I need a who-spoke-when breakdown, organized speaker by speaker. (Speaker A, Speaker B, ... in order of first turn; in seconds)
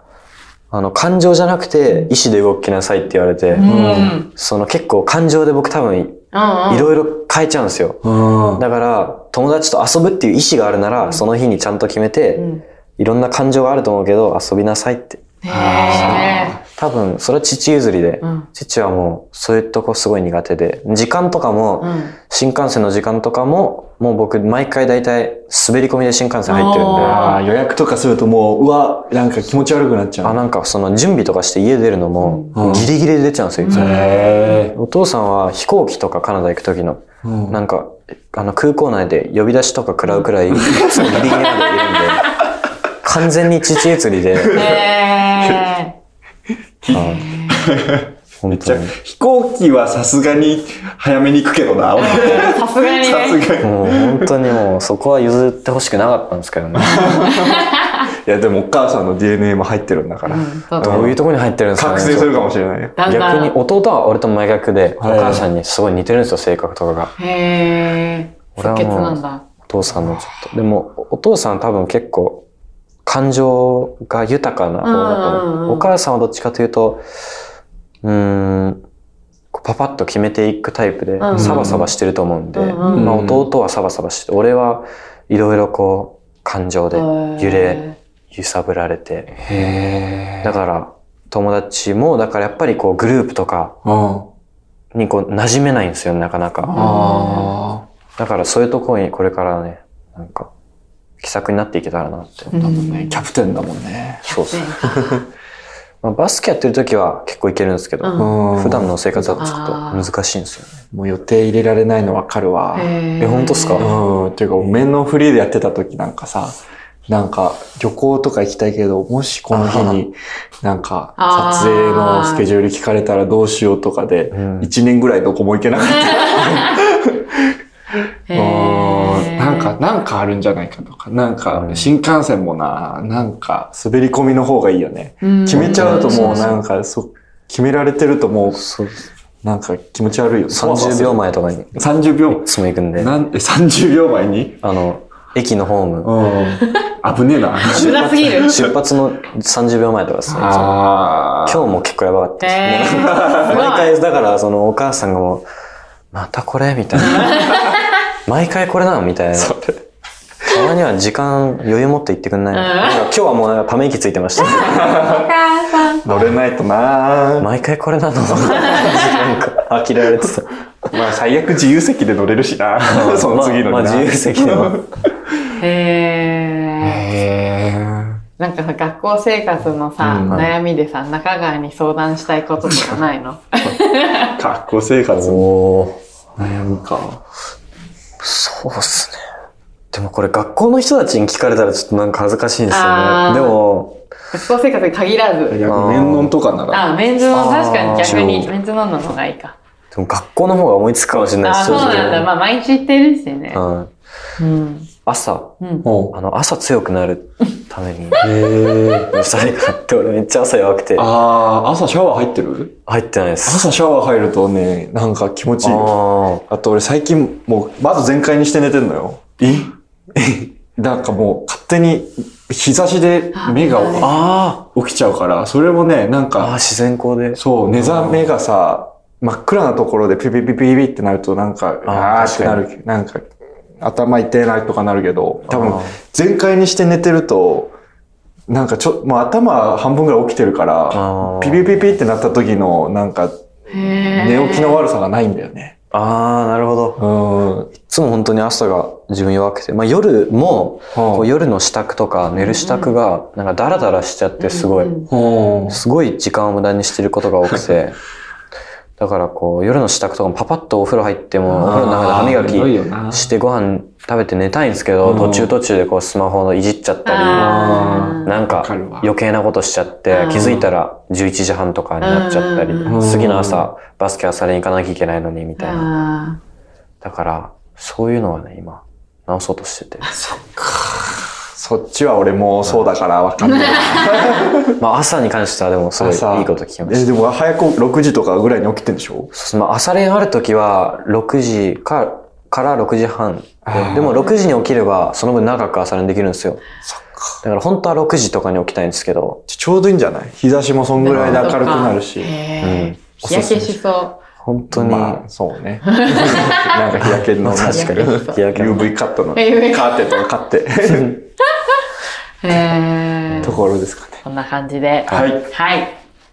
Speaker A: 0.7-8.0, 8.6-15.2, 15.9-27.2, 30.2-34.0, 34.7-42.3, 43.0-44.6, 46.9-47.3, 48.4-48.9, 53.6-57.3, 60.8-62.5, 63.0-67.1, 68.5-72.5, 73.0-77.0, 78.0-78.8, 79.5-89.3, 90.4-93.8, 94.9-96.9, 98.2-100.5, 101.2-102.5, 104.3-104.7, 106.0-110.8, 113.2-113.9, 119.5-120.0, 124.3-124.7, 131.5-131.9, 135.5-136.5, 138.5-139.1, 140.5-143.1, 144.6-146.2, 147.7-150.8, 151.4-155.4, 156.1-157.7, 158.2-159.6, 160.4-164.9, 167.4-170.5, 172.8-174.8, 185.2-186.0, 188.2-189.2, 189.9-194.0, 195.6-196.3, 197.3-198.5, 199.9-202.3, 203.5-203.9, 205.1-205.6, 206.1-208.2, 209.1-211.1, 212.9-213.7, 215.6-216.4, 224.0-224.7, 226.4-228.3, 231.8-232.7, 235.5-235.9, 240.9-241.9, 245.9-247.0, 247.8-255.0, 255.7-258.0, 259.0-275.9, 277.0-280.1, 284.7-287.1, 289.3-296.6, 297.4-299.4, 301.1-301.5, 302.6-303.6, 304.4-305.2, 307.0-308.9, 310.9-311.1, 313.3-313.6, 315.1-315.3
Speaker B: 3.5-4.3, 6.3-6.9, 12.4-12.6, 15.4-16.5, 18.2-18.5, 21.8-22.1, 26.5-27.4, 32.2-32.6, 33.6-34.6, 41.0-42.2, 44.5-46.0, 46.9-47.7, 52.0-53.4, 57.1-58.0, 60.2-61.1, 63.0-63.5, 67.2-69.4, 74.8-75.9, 81.2-81.7, 82.5-83.2, 86.9-88.0, 96.7-97.5, 102.5-103.2, 104.3-105.2, 108.0-108.4, 109.4-110.1, 112.7-113.9, 121.2-122.5, 125.9-126.8, 128.3-129.8, 135.2-136.6, 146.6-146.9, 147.6-148.6, 152.4-154.0, 157.1-157.8, 162.5-163.1, 164.4-166.0, 168.5-169.2, 175.6-177.1, 178.4-184.4, 192.7-193.6, 194.3-195.6, 196.7-199.6, 201.4-203.6, 204.4-204.9, 205.6-205.8, 223.3-224.1, 243.7-244.8, 252.4-252.9, 254.4-255.1, 267.0-268.3, 270.1-270.6, 272.0-273.0, 275.6-276.4, 283.4-284.4, 301.0-304.2, 305.9-306.8, 307.7-308.4, 309.3-310.2, 312.4-313.6, 314.2-316.0
Speaker C: 3.6-4.2, 8.0-8.6, 15.5-16.6, 26.9-30.4, 32.5-32.9, 33.7-34.8, 37.2-37.6, 40.5-41.4, 44.4-44.8, 46.8-54.4, 56.8-57.7, 58.2-61.1, 61.7-63.0, 65.0-65.5, 81.3-81.9, 82.8-83.5, 89.4-90.5, 93.8-94.3, 96.7-97.8, 102.5-104.2, 104.9-105.2, 108.2-109.4, 110.9-112.9, 113.8-116.6, 117.1-127.5, 128.3-138.7, 139.4-141.2, 141.7-144.6, 146.0-148.7, 150.3-151.7, 153.0-153.5, 159.3-159.8, 164.5-165.3, 166.0-167.5, 168.3-168.9, 170.9-175.5, 176.8-178.2, 180.0-180.4, 184.3-185.4, 186.4-187.2, 195.5-196.8, 201.7-202.2, 205.8-206.2, 208.2-209.1, 210.9-212.8, 213.4-215.9, 216.5-226.6, 227.3-233.2, 233.8-237.7, 238.5-243.4, 244.2-245.7, 247.0-247.7, 250.9-251.3, 255.1-255.8, 261.5-263.3, 265.0-265.5, 267.3-269.1, 270.3-270.7, 272.9-273.7, 280.2-284.8, 286.0-289.3, 293.6-294.2, 296.8-297.4, 299.5-302.3, 303.2-303.7, 304.7-311.2, 313.4-314.2, 315.1-315.4